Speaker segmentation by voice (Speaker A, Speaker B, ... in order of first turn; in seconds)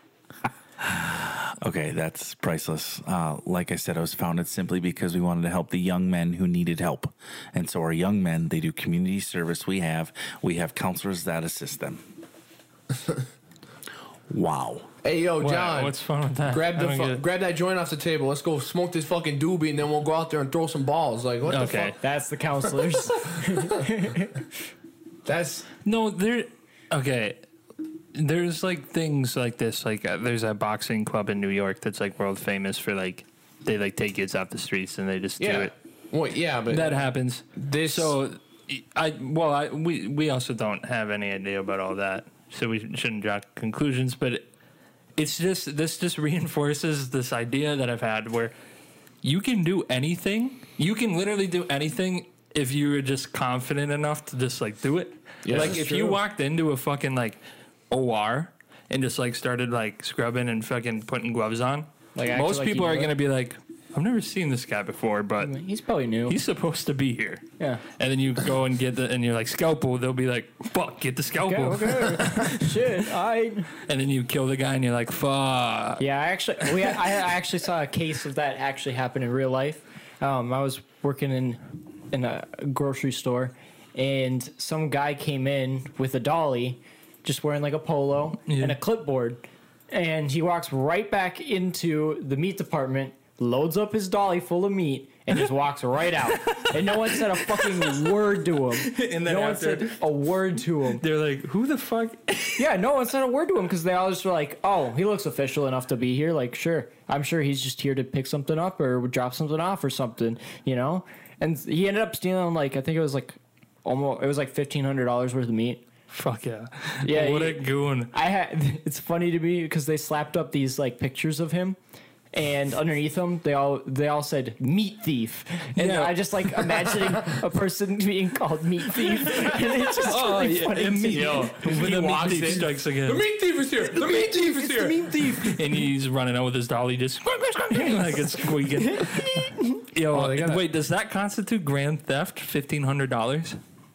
Speaker A: 0.8-12.1, 14.3-14.9
Speaker B: 15.0-22.0, 22.8-23.6, 25.2-25.7, 35.4-37.0, 37.6-38.2, 55.5-55.8, 131.1-135.1, 140.1-140.7
Speaker C: 15.4-17.2, 21.5-22.0, 25.9-27.4, 28.1-35.7, 36.7-44.5, 45.2-48.5, 49.2-65.5, 66.3-67.5, 68.0-73.0, 73.8-76.0, 88.5-88.8, 96.4-97.9, 98.8-100.0, 101.0-102.7, 116.1-118.1, 125.8-126.7, 129.9-133.2, 135.4-143.6
Speaker D: 22.0-24.4, 55.5-56.2, 62.1-63.1, 65.4-66.4, 71.4-73.7, 76.0-81.6, 82.1-101.0, 102.6-115.8, 117.0-121.8, 122.3-131.7, 133.8-135.8, 138.8-139.7